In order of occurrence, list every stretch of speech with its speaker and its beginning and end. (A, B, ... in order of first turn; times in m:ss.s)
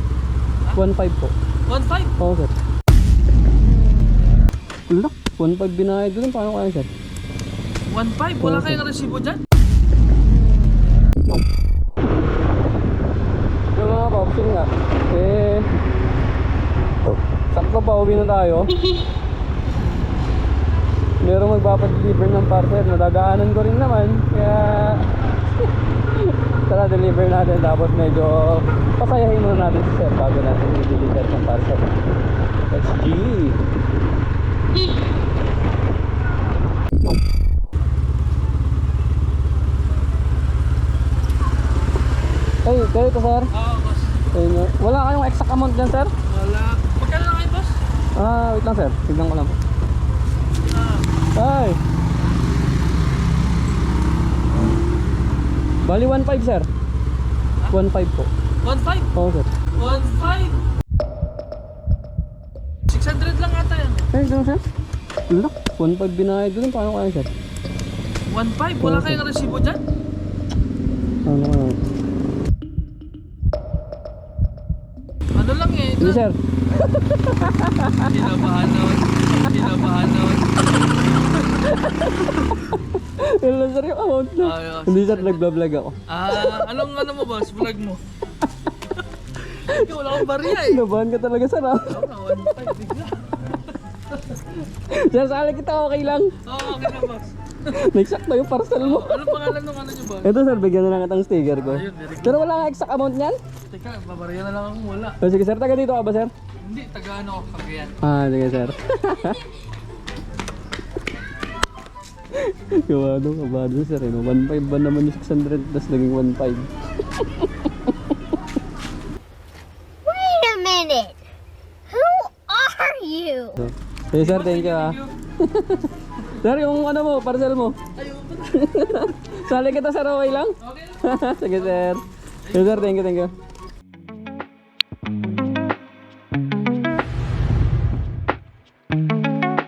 0:00.7-0:01.3 A
0:01.7-0:02.1 B
0:02.2-0:02.5 A
0:04.9-0:06.9 A
0:07.9-0:09.4 B
0:08.4-0:08.8 A
0:13.7-0:15.7 A
0:17.5-0:18.7 A
0:21.2-0:25.1 A
0:26.2-0:31.9 A
0:32.7-0:33.6 A
0:42.6-0:43.5 A
0:43.5-0:44.2 B
0:44.3-0:46.1 A
0:46.3-0:47.8 B
0:48.1-0:49.6 A
0:50.6-0:51.1 B
0:51.3-0:51.8 A
0:55.8-0:56.7 A
0:57.7-0:58.3 A
0:58.6-0:59.1 B
0:59.1-0:59.5 A
0:59.7-1:00.6 B
1:02.9-1:04.1 B
1:04.1-1:04.6 A
1:05.3-1:07.3 A
1:08.3-1:09.8 B
1:08.8-1:09.2 A
1:11.2-1:11.8 A
1:15.3-1:16.2 B
1:16.0-1:18.2 A
1:18.0-1:20.6 B
1:21.5-1:26.8 A
1:24.4-1:25.4 B
1:26.1-1:28.0 B
1:29.4-1:30.9 B
1:29.7-1:32.4 A
1:31.8-1:34.4 B
1:34.7-1:37.0 A
1:36.4-1:37.3 B
1:37.7-1:39.4 A
1:38.7-1:40.3 B
1:40.2-1:43.4 A
1:41.6-1:42.4 B
1:43.7-1:45.2 B
1:45.2-1:46.3 A
1:46.6-1:48.0 B
1:48.0-1:49.4 A
1:52.3-1:57.7 A
2:00.0-2:01.2 C
2:01.9-2:03.6 C
2:03.6-2:07.8 A
2:04.1-2:05.1 B
2:08.0-2:08.8 B
2:08.5-2:13.3 A
2:10.6-2:11.9 B
2:12.4-2:13.0 B